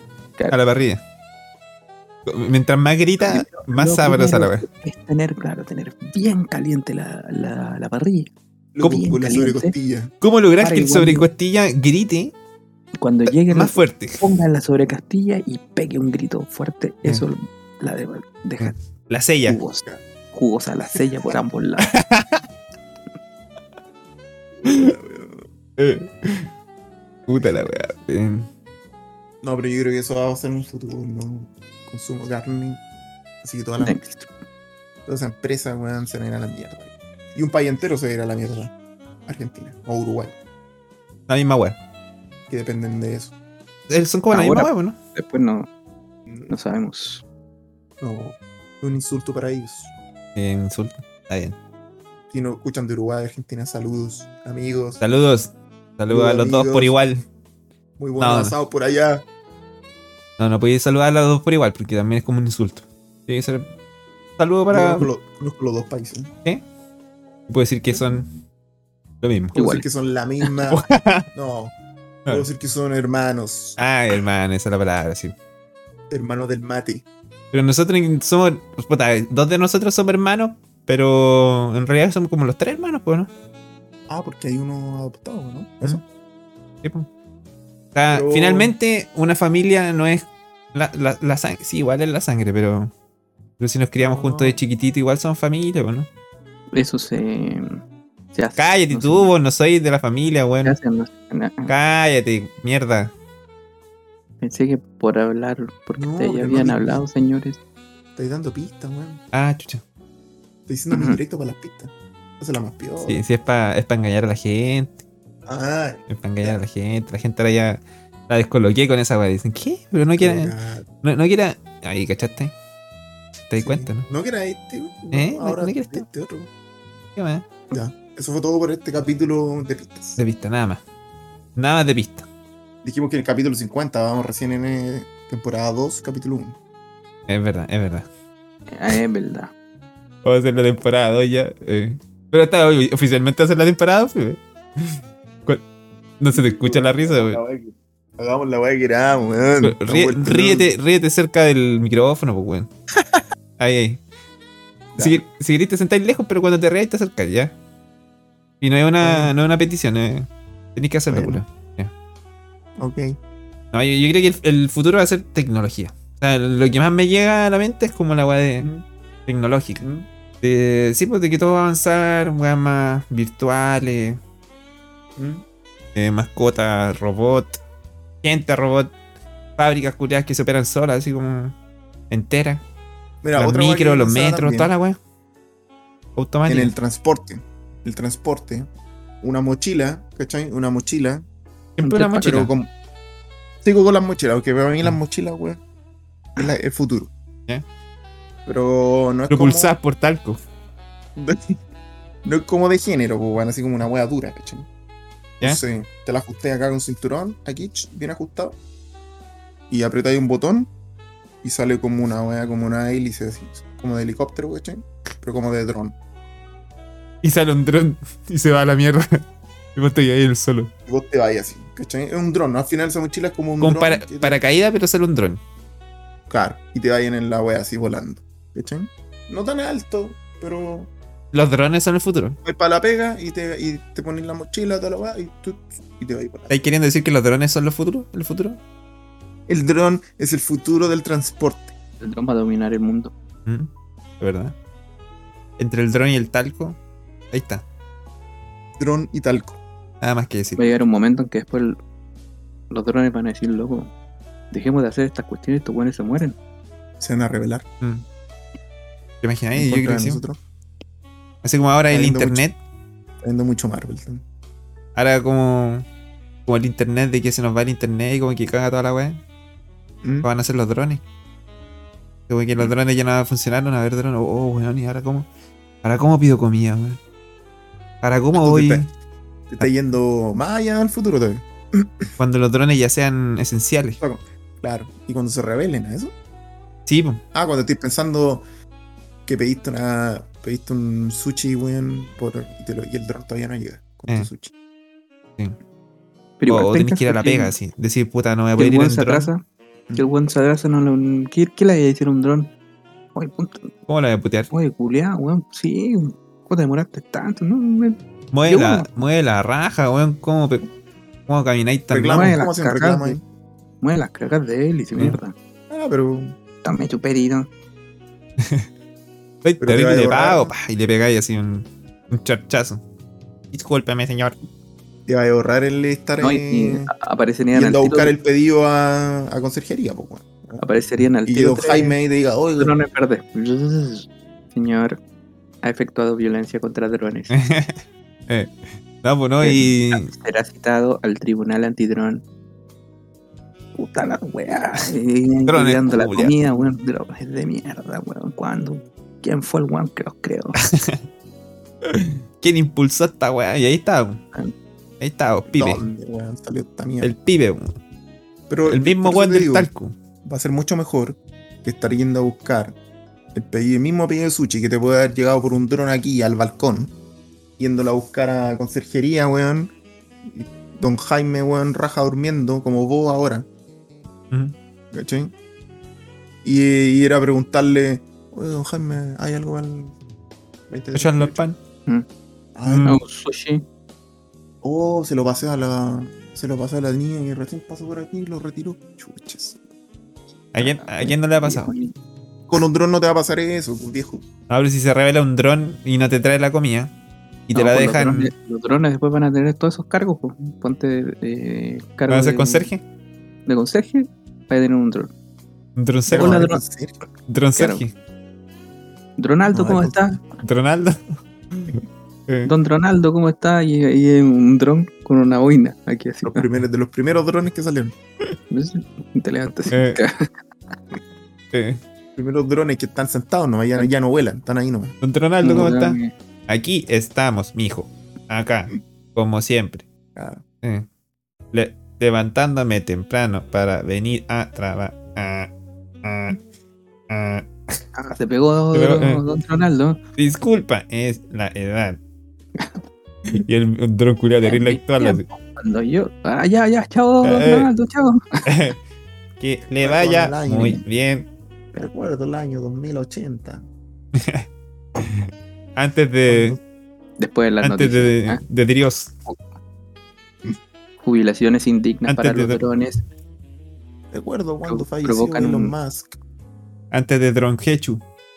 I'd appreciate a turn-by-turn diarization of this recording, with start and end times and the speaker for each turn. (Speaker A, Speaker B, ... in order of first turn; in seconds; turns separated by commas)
Speaker A: 0.5-1.0, Speaker A: 2.2-4.7, Speaker B: 3.2-9.7, Speaker C: 8.7-10.1, Speaker A: 10.2-12.3, Speaker B: 10.6-11.3, Speaker B: 13.0-18.7, Speaker A: 13.5-14.2, Speaker A: 18.6-19.6, Speaker B: 19.4-21.9, Speaker A: 21.8-22.4, Speaker C: 24.6-25.5, Speaker A: 24.6-24.9, Speaker A: 25.8-26.5, Speaker A: 27.3-28.5, Speaker C: 29.4-32.8, Speaker C: 33.4-34.0, Speaker B: 33.8-34.3, Speaker C: 35.0-38.7, Speaker C: 39.3-40.3, Speaker A: 41.3-41.8, Speaker C: 42.5-43.3, Speaker A: 43.9-45.0, Speaker B: 44.3-45.7, Speaker C: 46.3-46.5, Speaker B: 46.5-47.2, Speaker C: 48.0-49.9, Speaker A: 50.3-51.5, Speaker C: 52.3-55.0, Speaker A: 55.0-57.2, Speaker C: 56.1-56.9, Speaker C: 58.0-59.2, Speaker A: 58.2-58.5, Speaker A: 60.4-63.7, Speaker A: 64.4-65.1, Speaker C: 64.7-66.3, Speaker A: 67.5-68.3, Speaker A: 69.2-69.5, Speaker C: 69.5-71.7, Speaker B: 69.5-69.8, Speaker A: 70.7-71.3, Speaker C: 72.3-73.8, Speaker A: 73.8-75.3, Speaker C: 76.1-77.0, Speaker A: 77.5-83.3, Speaker C: 84.1-86.0, Speaker A: 86.8-87.1, Speaker A: 87.9-92.9, Speaker C: 88.1-88.7, Speaker A: 93.6-96.1, Speaker C: 94.0-94.6, Speaker B: 96.7-97.8, Speaker B: 98.3-99.3, Speaker A: 98.5-100.8, Speaker B: 100.6-101.7, Speaker A: 101.7-103.1, Speaker B: 104.4-107.6, Speaker C: 106.0-107.0, Speaker C: 108.2-109.2, Speaker A: 109.3-109.8, Speaker C: 110.7-113.2, Speaker B: 110.9-111.2, Speaker A: 113.0-115.0, Speaker C: 115.5-116.6, Speaker A: 116.1-122.5, Speaker C: 120.2-120.9, Speaker A: 123.5-124.1, Speaker C: 123.6-126.5, Speaker A: 125.1-126.0, Speaker A: 127.2-127.5, Speaker C: 127.7-130.2, Speaker A: 130.2-130.8, Speaker A: 131.6-132.3, Speaker C: 132.8-136.6, Speaker A: 137.3-138.1, Speaker B: 138.7-139.5, Speaker A: 140.2-145.6, Speaker A: 146.2-147.4, Speaker C: 146.3-150.7, Speaker A: 149.6-152.7, Speaker A: 153.6-154.0, Speaker A: 155.0-157.5, Speaker A: 158.6-161.9, Speaker C: 159.0-159.3, Speaker C: 161.1-161.4, Speaker C: 162.8-163.2, Speaker A: 163.7-168.7, Speaker A: 169.3-169.8, Speaker A: 170.4-174.2, Speaker C: 175.2-175.4, Speaker A: 175.9-177.6, Speaker A: 178.2-178.9, Speaker A: 179.6-181.5, Speaker A: 182.1-182.6, Speaker C: 183.2-184.7, Speaker A: 183.3-185.0, Speaker A: 186.2-186.7, Speaker C: 186.4-188.7, Speaker C: 189.2-191.2, Speaker A: 191.8-192.5, Speaker B: 191.8-192.4, Speaker C: 192.2-192.7, Speaker C: 193.6-195.6, Speaker C: 196.3-197.1, Speaker C: 198.4-199.7, Speaker A: 199.3-200.4, Speaker C: 201.2-201.6, Speaker C: 202.2-204.7, Speaker C: 205.4-208.6, Speaker C: 209.7-210.7, Speaker C: 211.4-215.9, Speaker A: 217.2-219.2, Speaker A: 219.7-220.7, Speaker C: 220.9-224.4, Speaker A: 223.6-225.4, Speaker C: 226.3-230.9, Speaker A: 231.3-232.4, Speaker C: 232.4-236.6, Speaker A: 236.5-238.6, Speaker C: 239.5-241.7, Speaker B: 242.0-243.1, Speaker A: 243.4-244.5, Speaker A: 245.6-246.8, Speaker A: 247.3-247.6, Speaker C: 248.8-249.6, Speaker A: 250.0-250.7, Speaker B: 250.6-251.8, Speaker B: 252.7-253.9, Speaker B: 254.5-256.4, Speaker C: 257.0-257.6, Speaker A: 259.2-260.2, Speaker C: 259.5-260.4, Speaker A: 261.4-262.6, Speaker C: 261.9-262.4, Speaker C: 263.2-264.2, Speaker A: 264.9-265.9, Speaker A: 266.4-269.2, Speaker C: 270.0-270.3, Speaker A: 270.2-271.0, Speaker A: 272.3-275.3, Speaker A: 275.8-277.0, Speaker A: 278.0-278.9, Speaker C: 278.3-278.9, Speaker C: 279.5-282.1, Speaker A: 282.2-284.0, Speaker C: 284.0-286.1, Speaker A: 286.9-287.2, Speaker C: 287.3-288.4, Speaker C: 289.2-294.5, Speaker B: 296.4-297.5, Speaker A: 296.5-299.3, Speaker B: 298.6-299.4, Speaker B: 299.9-302.5, Speaker B: 303.1-303.7, Speaker A: 303.9-304.5, Speaker B: 304.5-308.9, Speaker A: 308.3-310.7, Speaker A: 311.3-312.4, Speaker C: 311.9-313.2, Speaker B: 312.1-313.2, Speaker B: 313.8-315.3, Speaker C: 315.7-316.4, Speaker B: 316.6-317.5, Speaker A: 318.4-318.7, Speaker A: 319.4-322.8, Speaker C: 319.6-320.5, Speaker A: 323.5-324.4, Speaker C: 325.1-326.9, Speaker B: 326.2-328.1, Speaker C: 327.5-330.6, Speaker B: 330.6-332.0, Speaker C: 331.2-332.7, Speaker B: 332.6-335.0, Speaker B: 335.6-337.3, Speaker A: 337.3-340.1, Speaker B: 339.4-342.2, Speaker B: 343.7-350.6, Speaker A: 345.5-346.3, Speaker A: 350.6-351.0, Speaker A: 351.8-354.2, Speaker A: 355.0-355.8, Speaker C: 355.5-357.1, Speaker A: 357.0-357.8, Speaker C: 358.5-359.7, Speaker A: 358.6-359.9, Speaker C: 360.2-362.8, Speaker C: 363.3-366.9, Speaker C: 367.6-373.5, Speaker C: 374.9-375.3, Speaker C: 376.4-379.9, Speaker C: 380.7-381.4, Speaker A: 380.9-381.6, Speaker C: 382.5-382.9, Speaker A: 382.6-383.0, Speaker B: 382.8-383.6, Speaker C: 384.6-389.6, Speaker A: 390.5-391.7, Speaker B: 390.6-391.9, Speaker C: 392.5-394.2, Speaker A: 394.5-396.9, Speaker A: 397.5-398.3, Speaker B: 397.5-402.7, Speaker A: 402.1-402.8, Speaker B: 403.5-405.1, Speaker A: 405.8-406.4, Speaker C: 406.1-407.0, Speaker B: 406.1-406.6, Speaker A: 407.3-407.9, Speaker B: 407.6-407.8, Speaker B: 409.2-410.2, Speaker C: 409.5-410.0, Speaker A: 410.4-412.5, Speaker B: 412.4-416.4, Speaker C: 416.2-417.9, Speaker B: 418.5-420.3, Speaker A: 419.7-420.0, Speaker A: 421.5-421.8, Speaker C: 422.1-424.9, Speaker A: 425.0-426.0, Speaker B: 425.4-426.1, Speaker A: 426.5-429.9, Speaker C: 430.1-430.4, Speaker A: 431.5-435.5, Speaker A: 436.0-436.4, Speaker A: 437.1-437.8, Speaker B: 437.9-440.0, Speaker A: 438.7-439.2, Speaker A: 440.2-442.0, Speaker A: 443.3-445.2, Speaker B: 444.4-448.4, Speaker A: 447.2-447.7, Speaker A: 448.4-448.8, Speaker A: 449.4-451.3, Speaker C: 449.8-450.8, Speaker C: 451.7-453.6, Speaker A: 454.1-454.4, Speaker A: 455.0-456.6, Speaker C: 456.3-456.6, Speaker B: 457.2-458.4, Speaker A: 457.6-459.1, Speaker B: 461.0-463.0, Speaker A: 462.1-462.6, Speaker C: 464.1-466.1, Speaker B: 464.6-465.7, Speaker A: 466.9-468.0